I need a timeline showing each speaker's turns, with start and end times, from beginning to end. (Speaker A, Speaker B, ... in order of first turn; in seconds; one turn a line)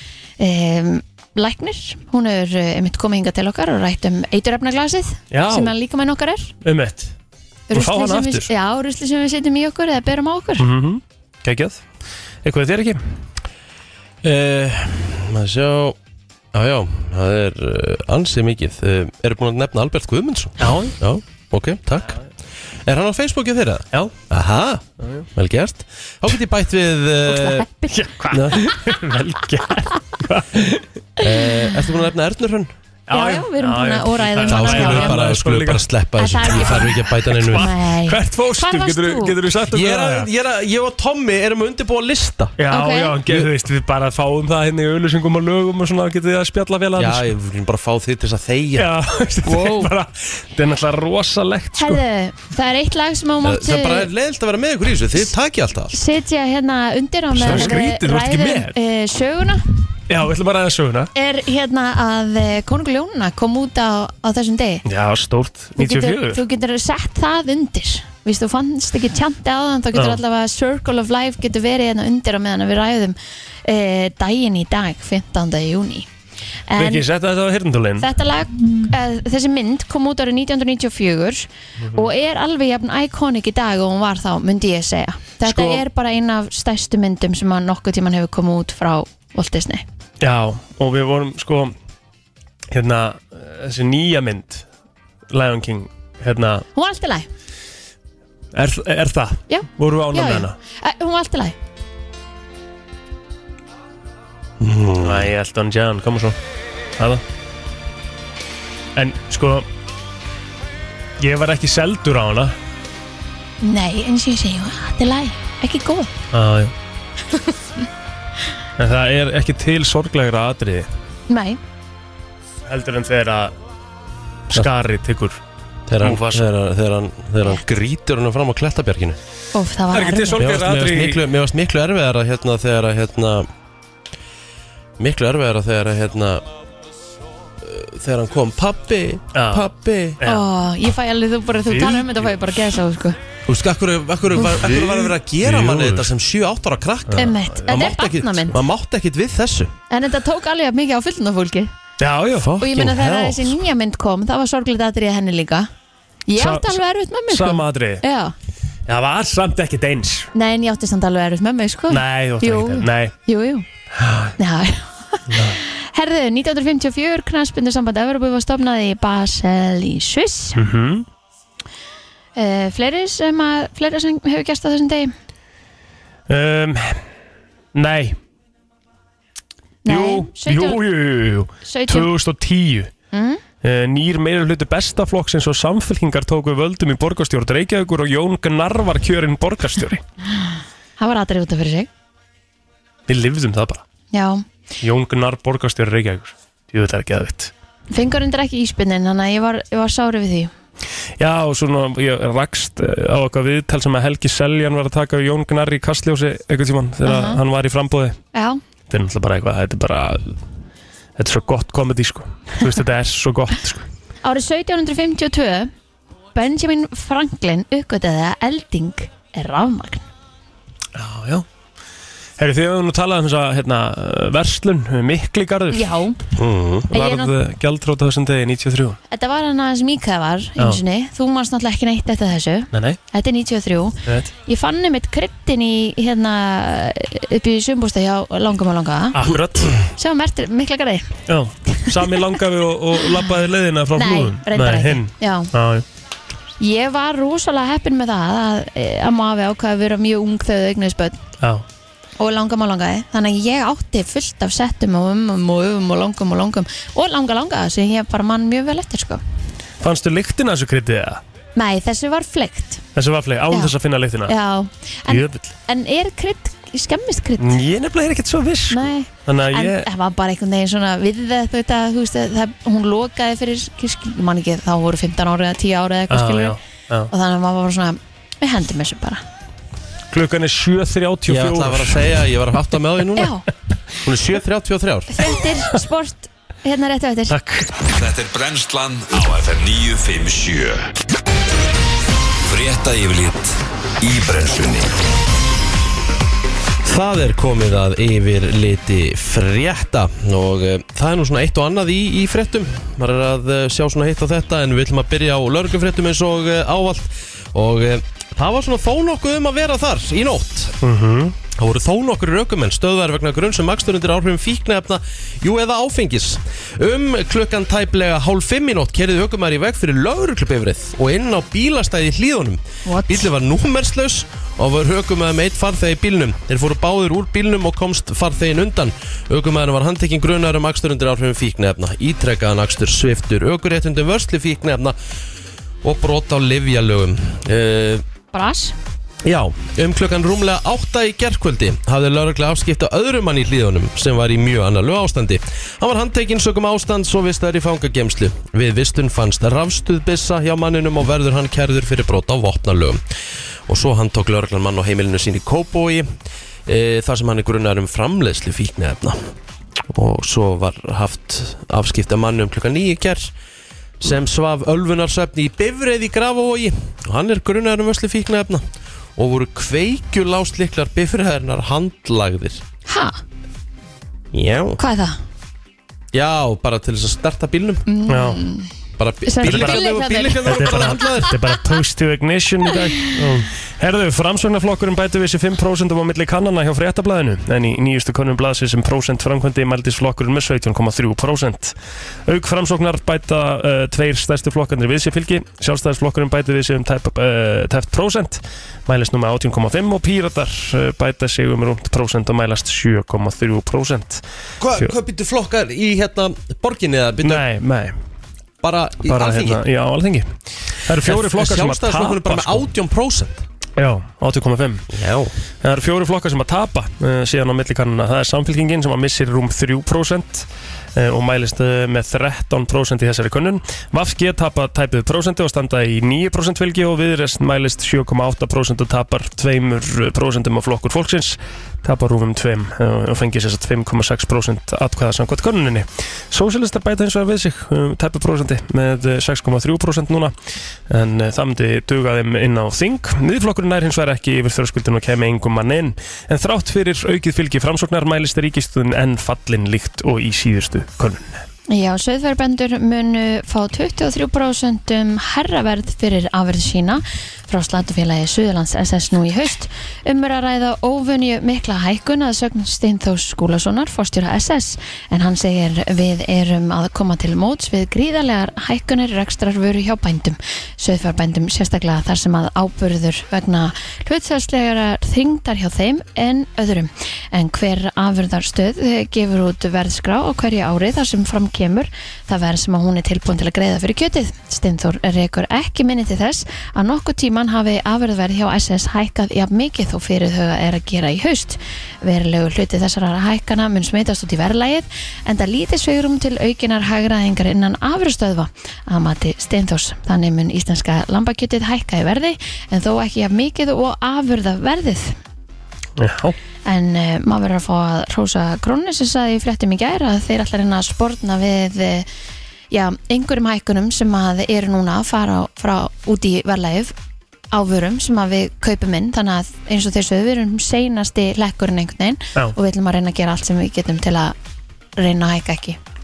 Speaker A: 0.4-6.5
Speaker B: 5.3-5.7
Speaker B: 6.6-7.1
Speaker A: 7.7-10.7
Speaker B: 7.7-8.5
Speaker B: 10.6-11.8
Speaker B: 12.4-13.0
Speaker C: 14.2-16.0
Speaker C: 16.5-22.2
Speaker B: 20.6-20.9
Speaker C: 22.8-27.6
Speaker B: 25.0-25.3
Speaker A: 27.3-27.9
Speaker B: 27.9-30.8
Speaker C: 28.3-28.7
Speaker C: 31.2-32.7
Speaker B: 33.1-35.8
Speaker A: 33.1-35.2
Speaker C: 34.5-37.7
Speaker A: 36.2-39.4
Speaker B: 36.5-40.3
Speaker C: 39.7-42.5
Speaker B: 42.6-47.3
Speaker A: 42.7-43.2
Speaker C: 47.0-48.9
Speaker B: 48.8-52.0
Speaker C: 49.4-49.9
Speaker A: 51.8-54.1
Speaker C: 53.4-55.9
Speaker A: 55.9-59.6
Speaker B: 57.4-58.7
Speaker C: 57.4-57.8
Speaker B: 60.1-61.1
Speaker A: 61.1-64.8
Speaker B: 64.8-66.4
Speaker A: 65.8-76.1
Speaker B: 69.9-70.2
Speaker A: 76.7-77.0
Speaker B: 76.8-78.1
Speaker A: 78.0-89.8
Speaker B: 81.8-82.0
Speaker B: 85.4-85.8
Speaker B: 90.2-91.7
Speaker B: 92.7-94.6
Speaker B: 95.3-96.6
Speaker A: 96.7-97.3
Speaker B: 98.5-100.5
Speaker A: 99.5-101.5
Speaker C: 104.6-105.3
Speaker B: 105.0-106.3
Speaker B: 107.0-107.2
Speaker B: 109.0-109.7
Speaker B: 111.2-112.5
Speaker A: 113.6-116.1
Speaker B: 116.3-116.7
Speaker B: 118.8-120.9
Speaker A: 121.3-121.6
Speaker B: 122.7-123.5
Speaker B: 124.5-125.4
Speaker C: 125.9-129.2
Speaker B: 126.0-126.5
Speaker A: 129.5-130.4
Speaker B: 129.9-131.2
Speaker C: 130.4-133.5
Speaker C: 135.0-136.4
Speaker C: 137.6-140.2
Speaker B: 139.3-139.7
Speaker B: 140.2-140.4
Speaker A: 140.2-143.2
Speaker B: 141.7-142.3
Speaker C: 143.5-149.7
Speaker B: 144.6-146.1
Speaker B: 147.1-147.5
Speaker A: 147.2-148.6
Speaker A: 149.9-151.7
Speaker B: 152.0-152.5
Speaker C: 152.3-153.6
Speaker A: 152.6-155.7
Speaker A: 156.3-158.3
Speaker B: 156.3-158.0
Speaker B: 158.9-160.3
Speaker A: 160.3-163.7
Speaker B: 161.9-163.1
Speaker B: 164.0-164.3
Speaker A: 164.4-170.6
Speaker B: 165.3-165.6
Speaker B: 170.6-171.1
Speaker A: 172.3-175.1
Speaker B: 176.3-177.0
Speaker B: 177.7-178.2
Speaker A: 179.8-180.8
Speaker B: 179.8-182.9
Speaker A: 181.6-182.1
Speaker A: 183.1-183.4
Speaker B: 183.6-190.0
Speaker A: 191.0-191.9
Speaker B: 193.1-193.8
Speaker A: 194.1-194.4
Speaker B: 194.8-197.5
Speaker A: 197.9-200.5
Speaker B: 201.2-208.2
Speaker A: 207.0-207.4
Speaker A: 208.3-208.6
Speaker B: 208.9-210.4
Speaker B: 211.2-213.8
Speaker A: 214.2-215.7
Speaker A: 216.3-220.0
Speaker B: 220.9-221.4
Speaker B: 222.4-225.9
Speaker A: 225.7-226.2
Speaker C: 226.3-226.9
Speaker B: 226.9-229.0
Speaker A: 226.9-227.3
Speaker A: 229.1-239.2
Speaker B: 232.7-233.0
Speaker B: 239.1-239.7
Speaker A: 239.9-241.1
Speaker B: 241.3-245.8
Speaker A: 243.9-245.5
Speaker A: 246.6-251.2
Speaker A: 252.2-259.2
Speaker B: 259.8-261.2
Speaker A: 261.6-262.8
Speaker B: 262.9-264.3
Speaker A: 264.2-267.5
Speaker B: 265.1-265.5
Speaker B: 267.4-269.9
Speaker A: 268.7-276.6
Speaker B: 276.1-277.1
Speaker A: 277.1-279.2
Speaker B: 280.1-282.2
Speaker C: 281.3-283.4
Speaker A: 283.1-283.4
Speaker C: 284.0-285.1
Speaker A: 285.1-287.3
Speaker B: 287.3-287.7
Speaker D: 287.8-290.9
Speaker D: 292.4-294.9
Speaker C: 296.8-310.7
Speaker B: 310.8-311.4
Speaker C: 311.5-335.0
Speaker A: 322.8-323.3
Speaker C: 335.8-338.0
Speaker A: 338.3-338.7
Speaker C: 339.2-353.0
Speaker C: 353.7-356.1
Speaker C: 356.6-359.3
Speaker C: 359.9-363.3
Speaker C: 364.0-368.6
Speaker C: 369.2-372.6
Speaker A: 372.9-373.2
Speaker C: 374.3-374.8
Speaker A: 374.8-375.2
Speaker C: 376.1-377.8
Speaker A: 377.9-378.7
Speaker B: 378.1-378.4
Speaker C: 379.0-381.4
Speaker A: 379.2-381.3
Speaker B: 379.4-391.7
Speaker B: 392.3-404.2
Speaker C: 404.6-407.4
Speaker B: 407.2-407.9
Speaker C: 408.6-409.6
Speaker B: 409.0-410.3
Speaker B: 410.8-412.7
Speaker C: 411.0-413.4
Speaker B: 413.8-414.9
Speaker C: 414.9-415.3
Speaker B: 415.6-440.3
Speaker B: 440.9-451.4
Speaker A: 451.7-505.2
Speaker B: 506.0-506.4
Speaker A: 506.6-512.1
Speaker A: 512.7-516.9
Speaker A: 517.5-524.3
Speaker A: 525.0-525.8